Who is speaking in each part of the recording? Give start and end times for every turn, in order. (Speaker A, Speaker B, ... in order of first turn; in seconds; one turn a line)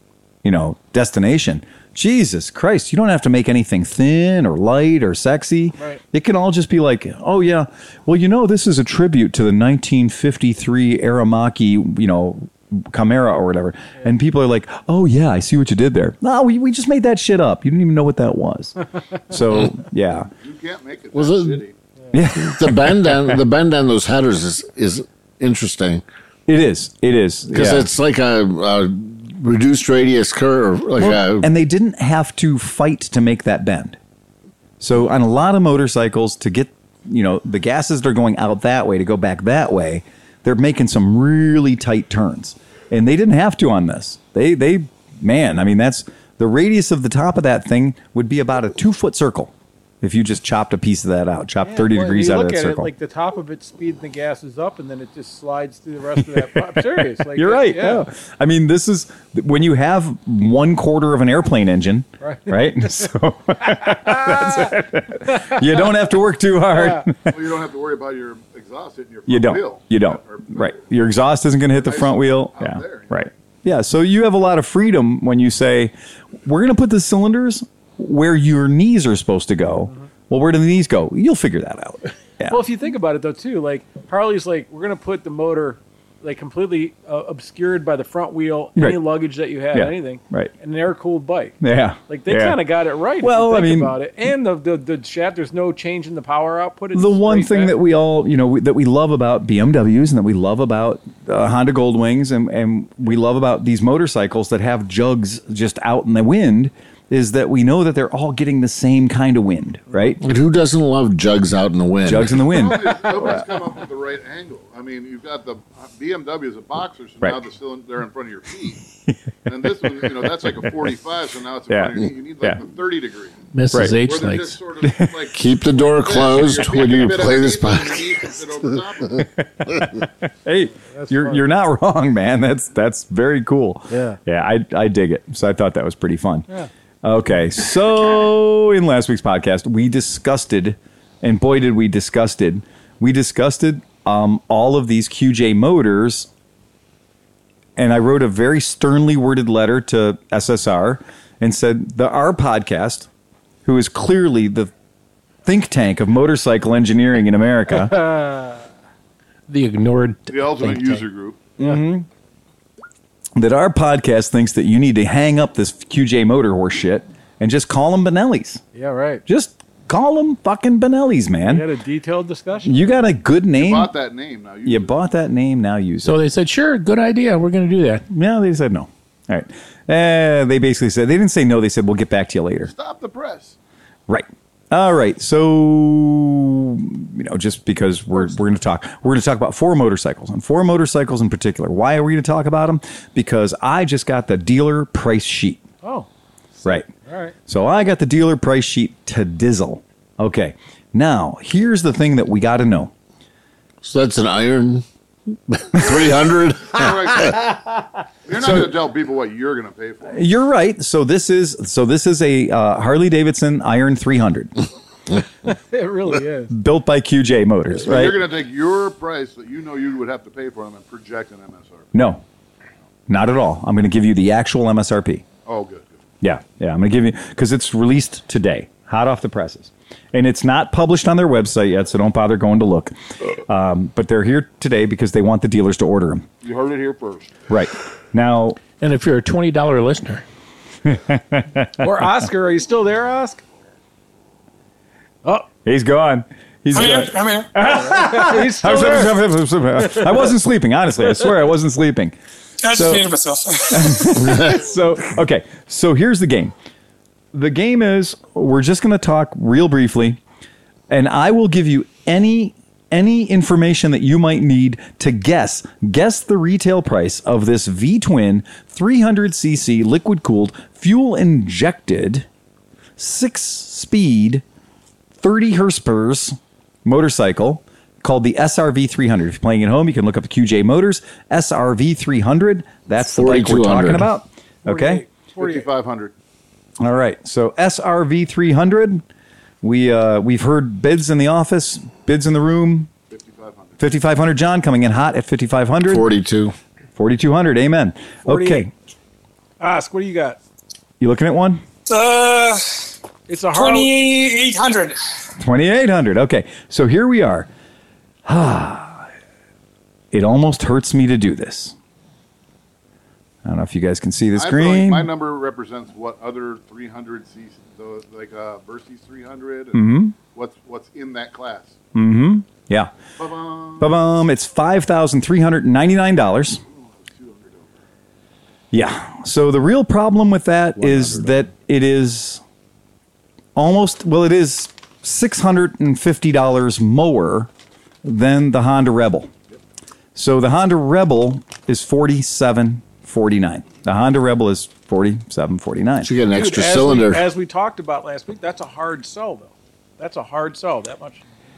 Speaker A: 0.4-20.3
Speaker B: 20.4-21.7
Speaker C: 21.1-21.6
Speaker A: 22.1-23.4
Speaker C: 22.4-26.0
Speaker A: 26.5-27.9
Speaker C: 27.5-31.5
Speaker A: 31.0-34.0
Speaker A: 34.8-52.9
Speaker D: 51.6-58.0
Speaker A: 56.3-67.4
Speaker D: 62.2-62.6
Speaker D: 63.9-64.6
Speaker D: 66.7-67.1
Speaker B: 67.2-70.8
Speaker A: 69.3-75.9
Speaker B: 71.8-73.3
Speaker A: 76.4-82.6
Speaker D: 82.5-91.6
Speaker A: 89.7-90.5
Speaker A: 91.6-92.6
Speaker D: 92.1-97.8
Speaker A: 93.2-94.0
Speaker A: 96.9-110.2
Speaker C: 110.2-112.4
Speaker A: 112.0-113.4
Speaker B: 112.3-118.8
Speaker B: 119.5-129.3
Speaker A: 119.8-120.5
Speaker A: 121.7-122.6
Speaker E: 123.5-124.6
Speaker A: 123.7-124.0
Speaker A: 124.8-125.2
Speaker C: 125.3-129.2
Speaker A: 129.4-136.5
Speaker D: 130.8-131.4
Speaker D: 133.9-134.2
Speaker A: 137.0-146.3
Speaker A: 147.8-153.1
Speaker A: 153.6-154.7
Speaker A: 155.4-158.1
Speaker D: 158.0-158.6
Speaker E: 159.5-161.0
Speaker B: 160.3-161.5
Speaker A: 161.6-162.1
Speaker A: 163.3-168.6
Speaker D: 168.7-169.2
Speaker A: 169.3-171.6
Speaker D: 171.4-172.9
Speaker A: 172.6-173.9
Speaker B: 173.6-174.9
Speaker A: 174.6-176.2
Speaker E: 176.0-178.0
Speaker A: 178.1-182.7
Speaker B: 182.6-183.6
Speaker A: 184.1-195.6
Speaker D: 195.8-197.3
Speaker A: 197.5-202.9
Speaker C: 203.8-207.4
Speaker B: 206.6-207.5
Speaker B: 208.2-210.2
Speaker A: 208.3-208.7
Speaker A: 210.1-214.5
Speaker D: 215.4-216.5
Speaker A: 216.5-218.2
Speaker B: 217.8-221.9
Speaker A: 221.9-222.2
Speaker A: 223.1-225.2
Speaker B: 225.4-226.0
Speaker A: 226.2-236.3
Speaker B: 236.4-237.4
Speaker A: 237.5-238.6
Speaker E: 238.8-240.2
Speaker A: 240.8-241.8
Speaker D: 241.8-243.4
Speaker A: 245.6-252.1
Speaker F: 246.7-247.5
Speaker D: 247.7-249.2
Speaker F: 252.6-254.3
Speaker A: 252.7-253.1
Speaker A: 253.7-256.5
Speaker A: 257.3-260.2
Speaker A: 260.9-272.2
Speaker A: 273.0-274.4
Speaker A: 275.2-285.0
Speaker C: 283.1-284.1
Speaker D: 284.6-285.6
Speaker B: 285.3-286.1
Speaker A: 286.8-289.0
Speaker A: 289.6-292.9
Speaker B: 293.1-293.9
Speaker A: 293.8-296.1
Speaker C: 295.9-296.5
Speaker A: 296.9-298.7
Speaker D: 298.2-298.6
Speaker D: 299.6-300.4
Speaker A: 301.0-301.6
Speaker F: 301.9-302.8
Speaker D: 303.3-303.9
Speaker F: 303.5-305.0
Speaker A: 305.4-307.5
Speaker A: 308.2-309.1
Speaker A: 310.1-311.7
Speaker A: 313.4-315.1
Speaker B: 314.3-321.8
Speaker A: 319.7-320.1
Speaker A: 321.9-322.9
Speaker B: 323.2-324.0
Speaker A: 323.8-326.6
Speaker B: 326.6-327.8
Speaker A: 328.7-332.4
Speaker C: 330.8-331.3
Speaker A: 333.6-337.5
Speaker A: 338.0-339.3
Speaker A: 340.1-346.1
Speaker C: 346.0-347.3
Speaker D: 346.3-351.2